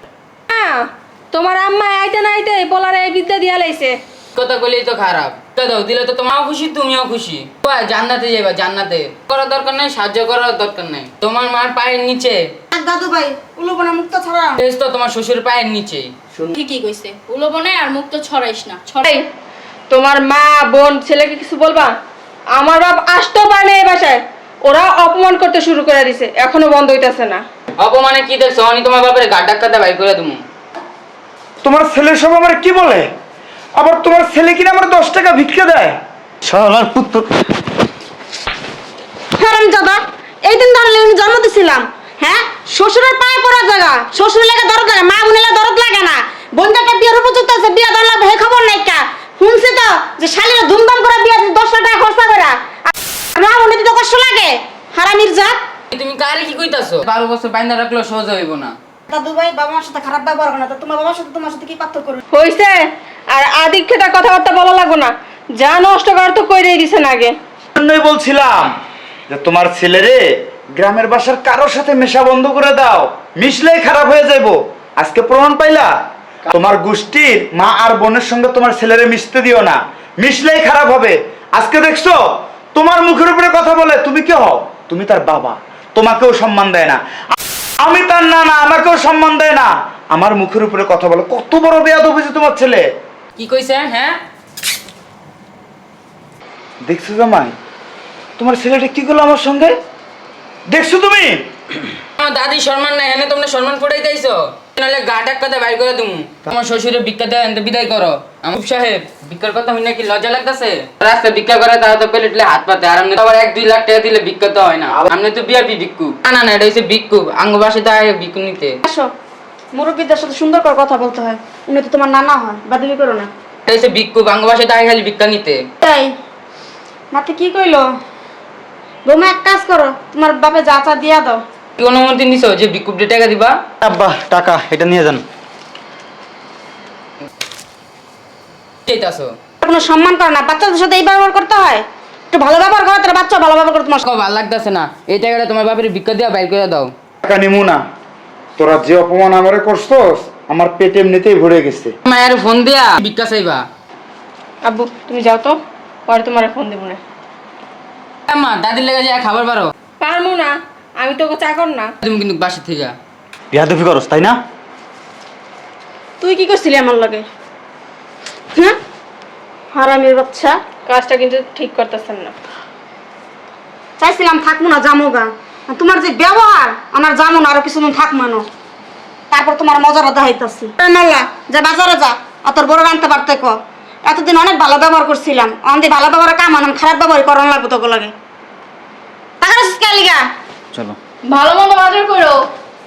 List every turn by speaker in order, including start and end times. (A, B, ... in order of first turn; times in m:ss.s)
0:00.5-0:04.0 A
0:04.3-0:12.4 B
0:12.7-0:14.6 C
0:14.6-0:16.1 B
0:16.5-0:19.1 D
0:19.9-0:21.9 A
0:22.5-0:27.4 A
0:27.8-0:30.4 B
0:31.6-0:33.1 E
0:33.8-0:36.0 E
0:36.4-0:37.2 F
0:39.4-0:55.6 C
0:55.9-0:58.7 B
0:59.1-1:02.2 C
1:02.3-1:07.3 A
1:07.7-1:08.7 E
1:09.3-1:15.9 E
1:16.5-1:22.2 E
1:22.7-1:27.0 E
1:27.8-1:32.8 E
1:33.4-1:34.2 B
1:36.8-1:37.6 E
1:38.4-1:39.7 E
1:40.7-1:41.4 E
1:42.2-1:58.8 B
1:59.7-2:03.3 C
2:03.7-2:05.6 B
2:05.8-2:06.1 C
2:07.1-2:07.8 C
2:09.0-2:11.4 C
2:11.8-2:13.6 B
2:13.8-2:15.2 F
2:18.9-2:19.4 B
2:19.6-2:24.0 C
2:24.0-2:26.9 B
2:27.2-2:27.8 E
2:28.6-2:31.9 E
2:32.0-2:33.6 B
2:34.6-2:37.0 A
2:38.3-2:39.7 B
2:40.0-2:41.9 A
2:42.0-2:42.9 B
2:43.5-2:44.4 F
2:46.2-2:47.3 C
2:49.7-2:50.6 C
2:50.9-2:52.3 A
2:54.0-2:58.5 C
2:59.3-3:08.1 C
3:09.4-3:10.3 C
3:11.2-3:12.4 D